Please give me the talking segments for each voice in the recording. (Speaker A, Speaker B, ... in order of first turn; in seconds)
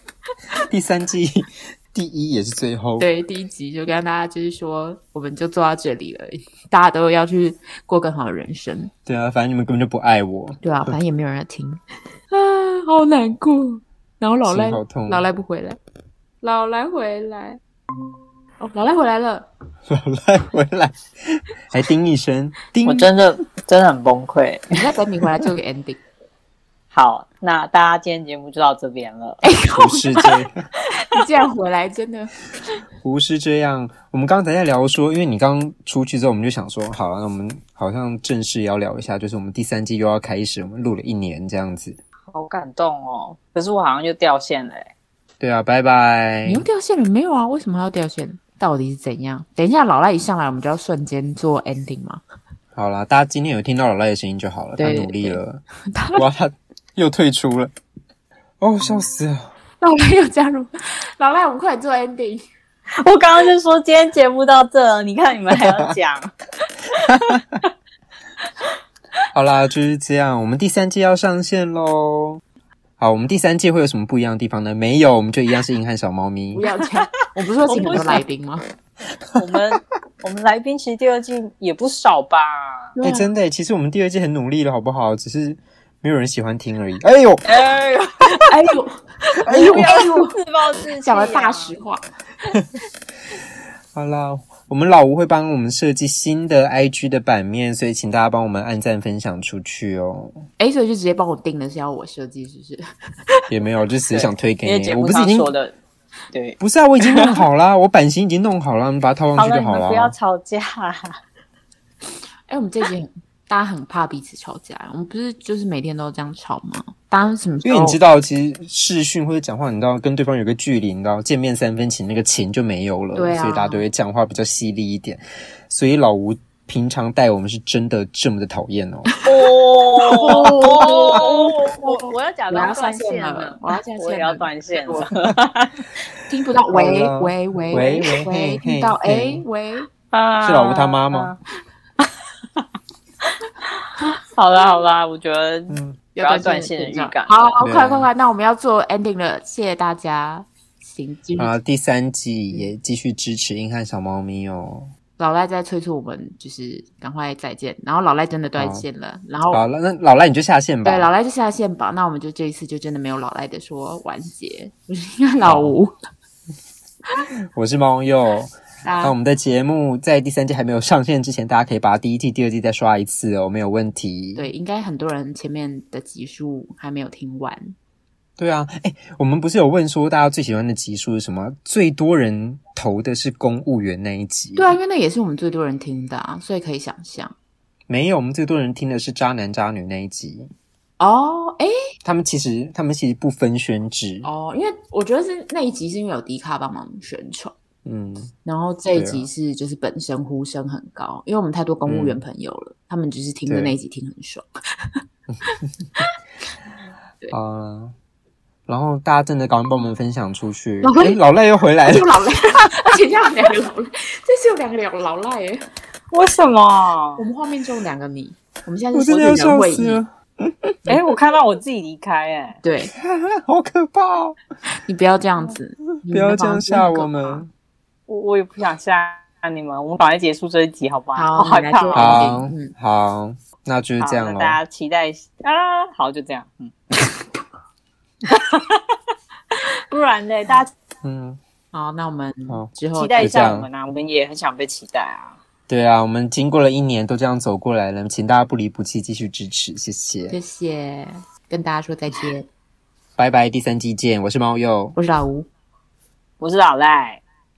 Speaker A: 0.6-3.1, 9.1-10.9, 14.4-15.3, 19.9-23.1, 29.7-30.6, 33.0-42.0, 45.4-46.6, 52.8-55.6, 56.1-57.7, 58.6-59.5, 65.5-65.9, 67.1-67.4, 69.3-72.4, 73.0-76.7, 83.0-87.4, 89.5-90.1, 93.9-100.4, 103.5-105.5, 106.6-110.1, 117.6-129.1, 136.7-139.4, 140.4-141.4, 145.7-146.0, 147.6-148.1, 151.4-154.9, 158.6-158.9, 159.5-161.1, 165.4-165.8, 167.5-174.5, 178.4-184.8, 187.9-190.5, 192.0-194.3, 197.8-198.3, 198.9-199.2, 201.9-202.2, 203.5-203.8, 207.3-207.9, 208.7-212.6, 218.9-220.8, 222.9-224.4, 226.0-227.5, 231.9-234.6, 241.0-241.4, 242.5-243.7, 245.7-250.4, 253.2-255.0
Speaker B: 3.0-8.9, 10.6-15.8, 16.4-17.6, 18.6-19.5, 24.7-26.0, 29.4-30.1, 31.1-32.4, 46.5-52.2, 54.8-56.2, 59.8-62.4, 76.5-78.6, 83.0-83.3, 88.5-90.3, 91.0-92.0, 100.6-102.8, 112.5-118.0, 123.1-123.9, 130.0-135.1, 136.3-139.9, 146.1-151.5, 155.2-159.6, 160.8-165.9, 168.8-169.1, 174.4-177.8, 184.6-187.3, 191.0-191.7, 194.2-197.5, 198.4-204.5, 210.8-211.2, 211.9-215.7, 217.2-220.0, 222.6-222.9, 224.8-227.4, 231.2-232.7, 241.7-243.3, 250.3-252.5, 255.0-255.5
Speaker C: 22.8-24.8, 26.9-29.4, 42.3-44.9, 63.0-66.3, 77.7-78.2, 79.3-82.9, 87.5-88.5, 89.5-91.7, 104.1-105.7, 106.3-106.6, 107.1-107.4, 109.4-111.0, 129.2-135.9, 140.1-141.4, 144.0-147.5, 216.1-217.2, 220.9-222.6, 228.1-232.1, 234.0-236.7, 238.3-238.8, 239.9-240.7, 242.9-245.4, 256.4-257.2